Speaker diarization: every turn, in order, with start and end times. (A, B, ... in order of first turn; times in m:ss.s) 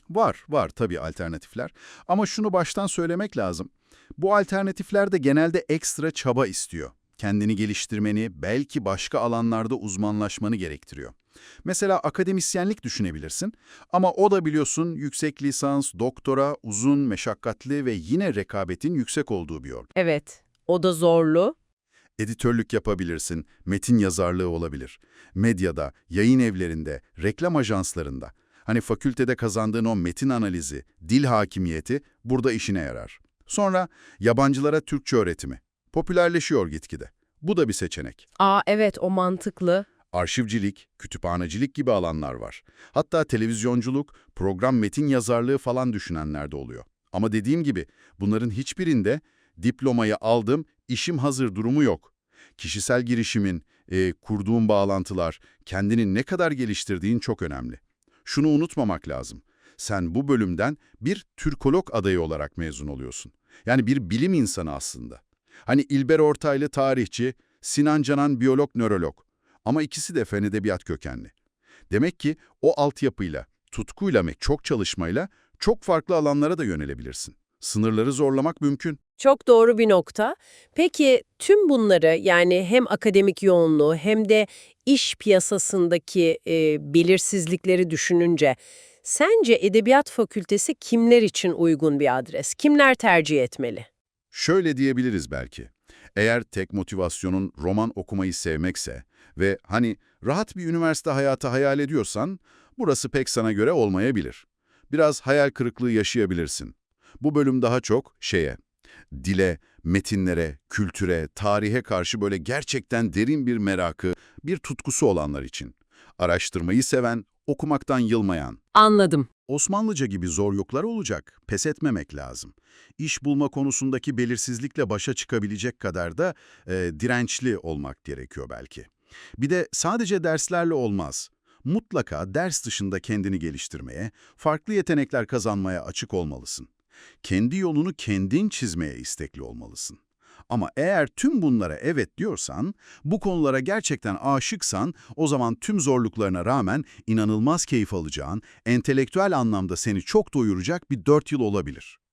0:00.1-0:19.9 A
0:19.9-0:21.5 B
0:22.2-0:38.2 A
0:38.4-0:39.9 B
0:40.1-1:11.3 A
1:11.9-1:19.0 A
1:19.2-1:33.9 B
1:34.3-1:48.6 A
1:49.1-1:58.6 A
1:58.7-1:59.3 B
1:59.5-2:16.7 A
2:17.2-2:32.0 A